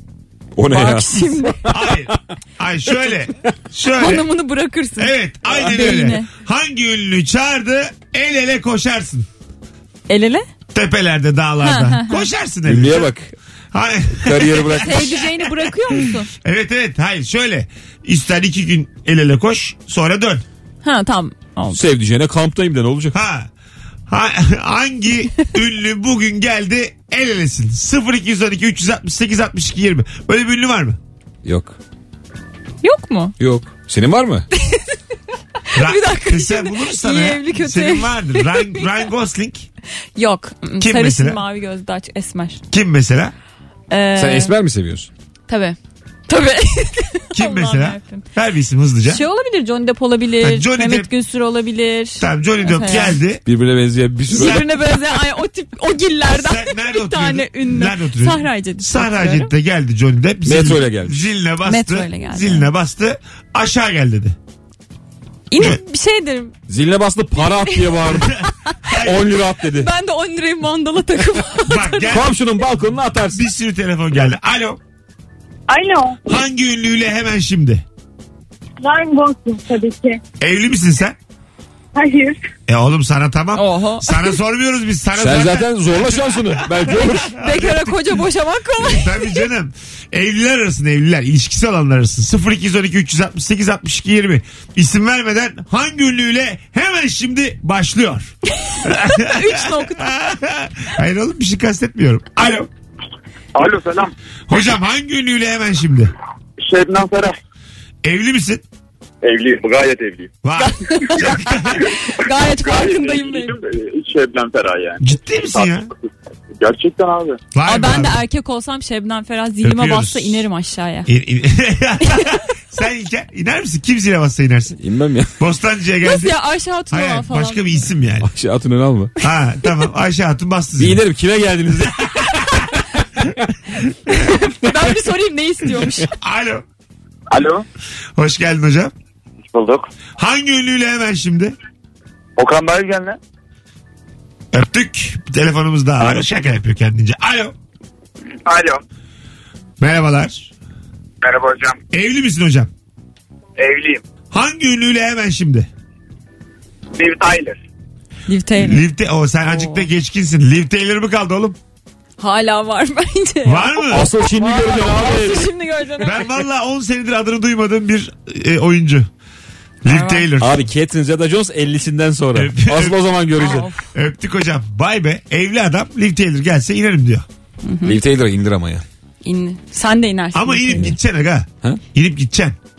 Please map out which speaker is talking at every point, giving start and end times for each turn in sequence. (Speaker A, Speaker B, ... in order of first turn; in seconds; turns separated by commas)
Speaker A: 0.6-2.1, Speaker B: 0.7-1.6, Speaker C: 1.7-4.3, Speaker B: 3.9-6.3, Speaker C: 5.0-9.3, Speaker B: 10.1-10.4, Speaker C: 10.7-13.1, Speaker B: 11.6-12.3, Speaker A: 12.7-13.3, Speaker C: 13.7-15.2, Speaker A: 14.1-15.2, Speaker B: 14.8-16.3, Speaker C: 16.4-20.4, Speaker B: 20.8-21.8, Speaker A: 21.7-23.1, Speaker C: 23.1-23.5, Speaker C: 24.1-31.0, Speaker A: 31.4-31.8, Speaker B: 32.8-33.3, Speaker A: 33.4-34.5, Speaker B: 34.6-34.8, Speaker B: 35.7-38.9, Speaker C: 35.7-39.7, Speaker B: 40.1-42.6, Speaker C: 40.8-41.4, Speaker C: 42.7-43.3, Speaker B: 43.9-44.5, Speaker A: 44.1-45.1, Speaker B: 45.5-45.8, Speaker B: 46.3-48.2, Speaker C: 47.3-49.2, Speaker B: 49.0-53.2, Speaker C: 50.4-51.1, Speaker C: 52.2-53.4, Speaker A: 53.4-54.7, Speaker B: 54.3-59.5, Speaker C: 54.3-54.7, Speaker C: 56.3-64.3, Speaker A: 60.4-61.3, Speaker B: 61.6-62.7, Speaker B: 65.5-66.5, Speaker A: 66.7-68.3, Speaker B: 67.6-68.2, Speaker C: 68.9-69.3, Speaker A: 69.0-69.9, Speaker B: 69.7-72.2, Speaker C: 71.6-72.3, Speaker A: 72.1-73.4, Speaker C: 73.3-74.8, Speaker D: 75.7-76.2, Speaker C: 76.3-77.8, Speaker D: 78.8-80.2, Speaker C: 80.4-81.2, Speaker D: 81.9-82.4, Speaker C: 82.7-88.2, Speaker B: 83.5-84.3, Speaker A: 85.2-87.3, Speaker B: 87.3-89.5, Speaker C: 88.8-102.7, Speaker B: 98.7-100.1, Speaker E: 103.5-104.1, Speaker C: 104.5-106.1, Speaker E: 106.6-107.4, Speaker C: 108.0-108.6, Speaker E: 109.2-110.3, Speaker C: 110.4-111.9, Speaker B: 110.6-113.5, Speaker E: 112.5-116.0, Speaker C: 115.0-115.9, Speaker E: 116.6-117.4, Speaker C: 117.5-118.2, Speaker B: 117.6-121.1, Speaker C: 119.6-120.4, Speaker C: 121.1-124.8, Speaker A: 124.8-125.3, Speaker C: 125.4-126.4, Speaker B: 126.0-127.8, Speaker C: 126.9-128.3, Speaker A: 128.2-129.1, Speaker C: 129.2-131.0, Speaker A: 130.8-132.1, Speaker C: 132.0-132.4, Speaker B: 134.1-136.1, Speaker C: 136.1-136.6, Speaker E: 137.3-137.6, Speaker C: 138.2-138.9, Speaker E: 139.5-139.9, Speaker C: 140.2-141.5, Speaker E: 142.4-143.2, Speaker C: 144.5-147.5, Speaker E: 148.4-148.8, Speaker C: 149.8-150.5, Speaker E: 151.2-151.8, Speaker C: 151.9-152.7, Speaker E: 153.6-154.0, Speaker C: 154.3-155.7, Speaker E: 156.9-157.6, Speaker B: 158.3-158.9, Speaker C: 158.6-161.6, Speaker B: 159.4-159.9, Speaker B: 162.2-166.4, Speaker C: 163.4-164.1, Speaker A: 163.9-165.5, Speaker C: 166.0-169.1, Speaker C: 169.8-170.6, Speaker B: 169.8-170.3, Speaker A: 170.4-173.7, Speaker C: 172.3-177.2, Speaker B: 173.4-173.9, Speaker B: 177.6-178.0, Speaker A: 177.8-178.8, Speaker B: 179.2-180.9, Speaker C: 180.3-182.6